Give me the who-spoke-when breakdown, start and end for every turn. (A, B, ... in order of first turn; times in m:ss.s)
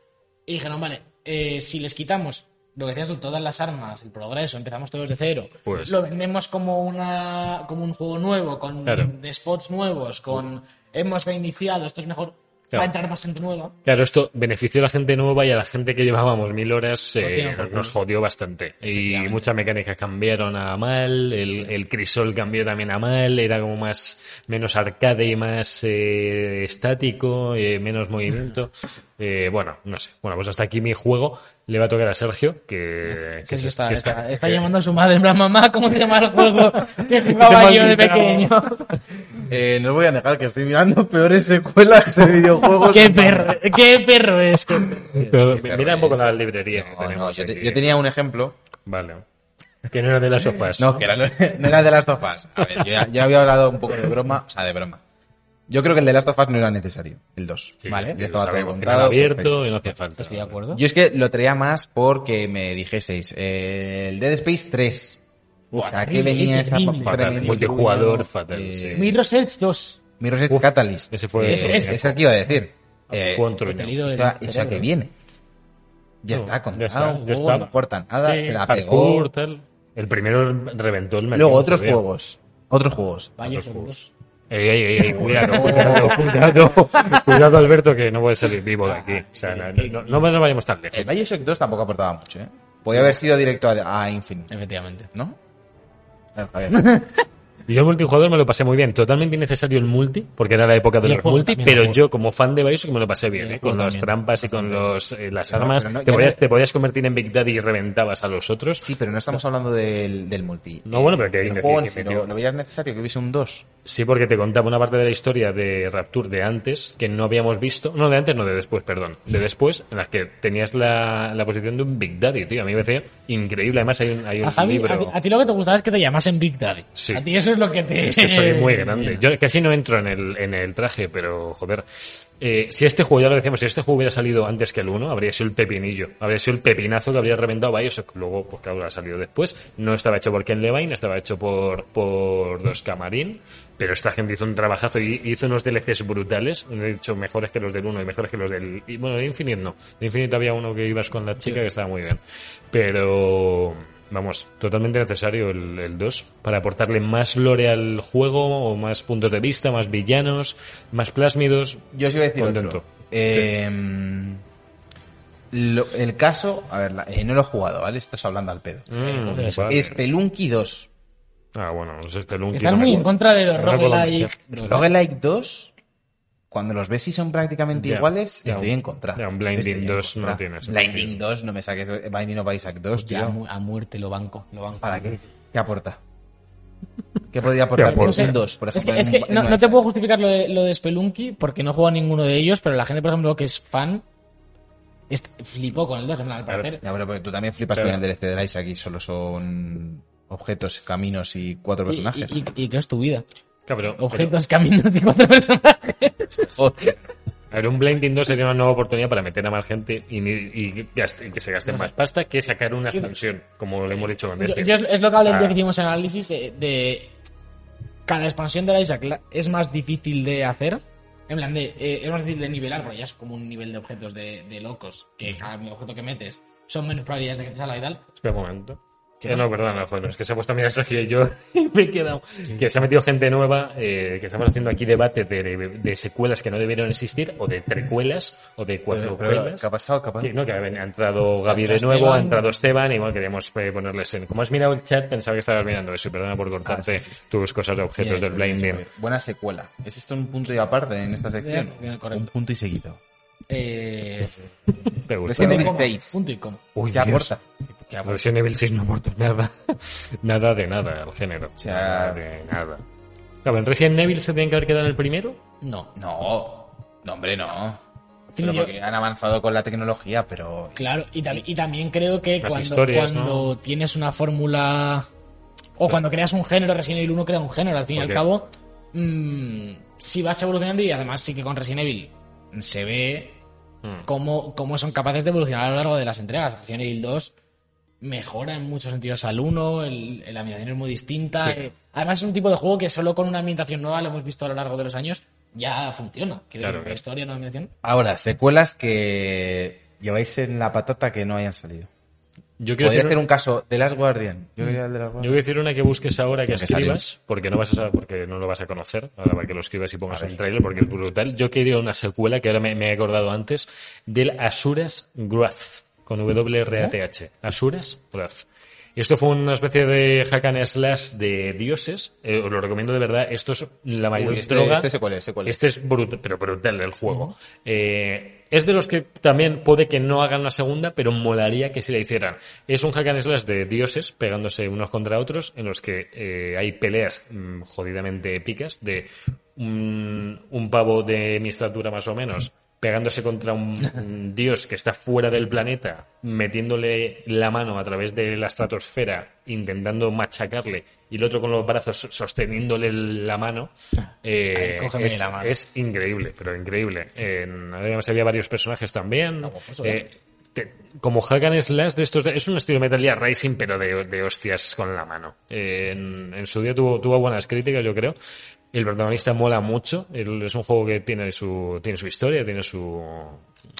0:00.5-0:13.7 A
0:05.6-0:06.0 B
0:08.9-0:09.1 B
0:13.8-0:34.7 B
0:17.2-0:18.0 A
0:18.9-0:19.4 A
0:33.1-0:39.0 A
0:37.4-0:38.1 C
0:37.4-0:38.4 B
0:39.3-0:43.6 C
0:42.8-0:45.3 A
0:45.1-0:48.6 C
0:45.1-0:47.8 B
0:48.9-0:49.2 B
0:49.9-0:51.0 B
0:50.8-0:55.0 C
0:55.7-0:59.6 C
0:57.8-1:00.6 B
0:57.9-0:58.2 A
1:00.2-1:00.8 A
1:00.7-1:05.2 C
1:05.7-1:08.2 A
1:05.7-1:09.2 C
1:07.0-1:09.1 B
1:09.0-1:10.0 A
1:10.2-1:13.5 C
1:10.5-1:12.2 B
1:11.4-1:12.1 A
1:13.1-1:14.0 B
1:13.6-1:14.9 A
1:14.0-1:15.1 C
1:16.2-1:19.3 C
1:16.3-1:17.7 B
1:18.2-1:22.0 B
1:21.3-1:23.5 C
1:23.4-1:24.1 A
1:23.4-1:23.9 B
1:24.5-1:31.1 B
1:25.0-1:26.4 C
1:25.3-1:27.4 A
1:28.8-1:30.2 A
1:30.9-1:34.5 C
1:34.5-1:35.1 A
1:35.1-1:35.4 C
1:36.3-1:36.8 C
1:36.7-1:37.2 A
1:37.7-1:48.9 B
1:41.0-1:42.0 A
1:43.3-1:44.9 A
1:45.5-1:46.4 C
1:48.8-1:53.7 C
1:50.8-1:52.3 B
1:53.8-2:05.1 B
2:04.4-2:09.2 A
2:07.0-2:07.2 B
2:08.0-2:32.2 B
2:32.7-2:41.8 B
2:41.9-2:44.4 C
2:42.4-2:43.5 B
2:45.5-2:48.9 C
2:48.9-2:50.0 B
2:49.0-2:49.8 A
2:49.7-2:50.9 C
2:51.5-2:54.4 B
2:52.5-2:54.9 A
2:54.6-2:55.7 C
2:56.5-3:03.4 C
2:57.7-3:01.2 B
3:02.9-3:05.2 A
3:04.8-3:06.0 C
3:07.3-3:09.8 C
3:07.8-3:08.4 B
3:07.8-3:14.0 A
3:15.1-3:16.8 A
3:16.8-3:22.4 C
3:17.7-3:18.0 B
3:21.9-3:23.2 A
3:23.7-3:24.3 B
3:24.0-3:26.7 A
3:26.6-3:27.0 C
3:27.5-3:35.6 B
3:31.6-3:31.9 A
3:34.4-3:37.1 A
3:38.1-3:48.0 A
3:48.2-3:59.7 B
3:58.9-4:00.3 C
4:00.2-4:08.8 B
4:01.5-4:02.5 A
4:06.6-4:07.1 C
4:08.0-4:13.0 C
4:11.4-4:12.3 A
4:13.5-4:14.3 A
4:14.9-4:15.8 B
4:15.2-4:16.2 C
4:15.3-4:16.6 A
4:16.7-4:17.3 B
4:16.9-4:17.4 C
4:17.9-4:18.2 A
4:18.0-4:22.8 B
4:21.6-4:22.2 C
4:23.4-4:25.4 B
4:25.6-4:25.9 A
4:25.9-4:27.8 C
4:28.3-4:28.8 A
4:28.4-4:30.9 C
4:30.8-4:35.1 A
4:32.4-4:33.5 B
4:35.8-4:43.4 A
4:38.0-4:38.2 B
4:44.0-4:47.3 A
4:48.0-4:57.7 A
4:56.6-4:57.0 B
4:57.8-5:01.9 C
5:02.6-5:03.2 B
5:02.8-5:05.4 C
5:05.2-5:24.9 B
5:06.5-5:07.0 C
5:10.1-5:10.4 C
5:24.1-5:25.7 C
5:25.4-5:53.7 B
5:54.2-6:08.2 B
5:54.5-5:55.6 A
5:59.4-6:00.0 A
6:08.7-6:13.4 B